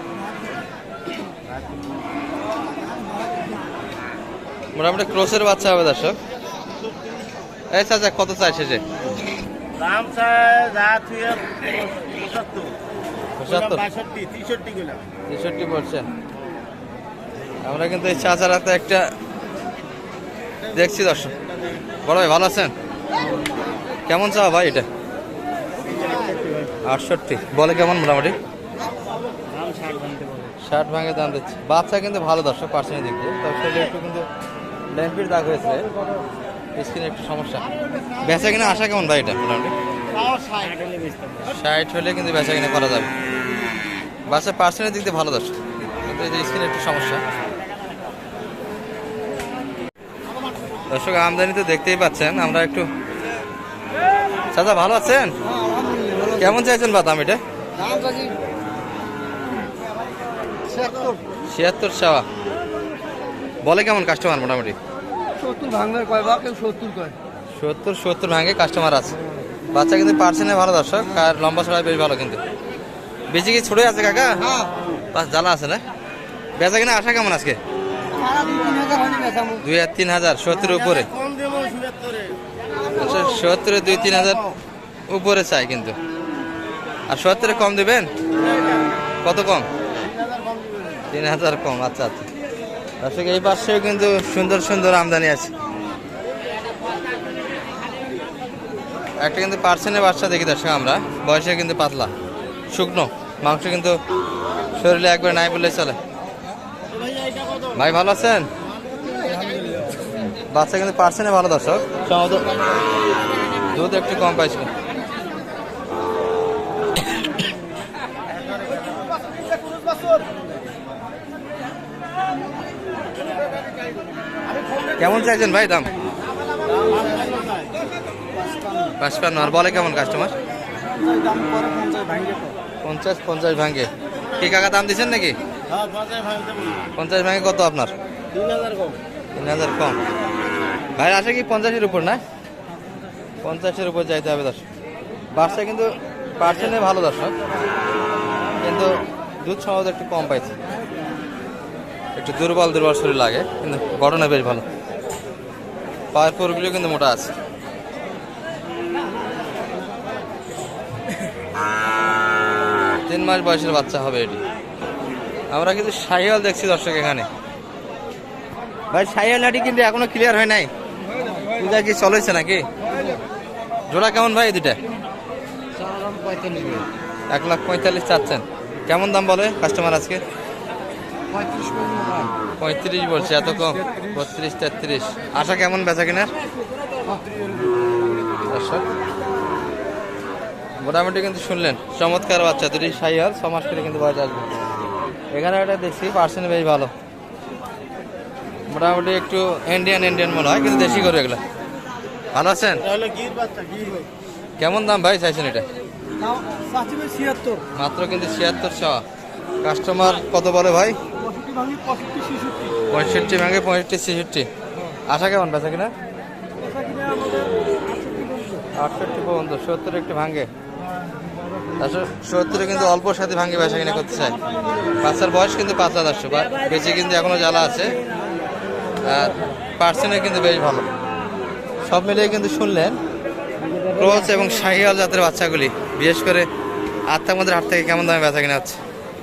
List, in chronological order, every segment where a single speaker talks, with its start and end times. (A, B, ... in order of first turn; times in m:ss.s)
0:04.8-0:06.2 A
0:06.8-0:07.2 B
0:07.7-0:08.8 A
0:09.8-0:12.8 B
0:13.4-0:13.8 A
0:13.5-0:15.0 B
0:15.3-0:16.0 A
0:17.6-0:19.1 A
0:20.7-0:21.3 A
0:22.0-0:22.7 A
0:24.1-0:24.8 A
0:26.1-0:26.4 B
0:26.8-0:28.4 A
0:29.4-0:30.5 B
0:30.6-0:34.3 A
0:34.9-0:35.9 A
0:36.8-0:37.6 A
0:38.2-0:39.7 A
0:40.1-0:41.3 B
0:41.4-0:43.1 A
0:44.3-0:47.2 A
0:50.9-0:52.9 A
0:54.5-0:55.3 A
0:56.2-0:57.4 A
1:01.5-1:02.2 A
1:03.6-1:04.8 A
1:05.5-1:07.0 C
1:07.5-1:09.2 A
1:09.7-1:12.4 A
1:13.3-1:14.5 A
1:15.1-1:15.8 A
1:16.6-1:17.6 A
1:19.6-1:21.1 A
1:20.9-1:22.4 B
1:22.9-1:24.5 A
1:25.1-1:26.0 A
1:27.1-1:28.1 A
1:28.4-1:28.8 B
1:29.2-1:29.7 A
1:30.0-1:31.0 B
1:31.1-1:32.2 A
1:33.0-1:35.5 A
1:39.2-1:42.1 A
1:42.7-1:44.0 A
1:44.8-1:46.0 A
1:46.9-1:47.7 B
1:47.7-1:48.5 A
1:48.9-1:49.7 B
1:50.5-1:52.6 A
1:53.7-1:54.7 A
2:05.0-2:05.9 A
2:06.7-2:07.7 B
2:09.0-2:10.3 A
2:11.1-2:12.5 B
2:12.8-2:15.4 A
2:15.7-2:16.9 B
2:17.0-2:17.9 A
2:18.3-2:19.0 B
2:19.4-2:20.0 A
2:21.0-2:22.2 A
2:23.4-2:24.6 A
2:25.3-2:27.3 A
2:28.6-2:30.5 A
2:32.2-2:34.6 A
2:36.1-2:37.3 A
2:43.0-2:44.4 A
2:45.5-2:47.2 A
2:48.9-2:50.7 A
2:51.5-2:52.7 A
2:53.9-2:54.8 A
2:57.3-3:00.2 A
3:01.6-3:02.1 C
3:02.6-3:06.3 A
3:08.5-3:08.8 A
3:10.8-3:14.5 A
3:15.3-3:16.9 A
3:18.7-3:21.4 A
3:22.3-3:22.8 A
3:22.8-3:24.1 B
3:24.6-3:25.6 A
3:26.9-3:27.4 C
3:27.7-3:29.0 A
3:29.6-3:31.0 A
3:32.9-3:34.5 A
3:35.1-3:35.9 A
3:38.8-3:40.5 A
3:41.8-3:44.4 A
3:45.0-3:48.0 A
3:49.0-3:50.8 A
3:51.8-3:53.0 A
3:53.8-3:56.5 A
3:57.1-3:58.8 A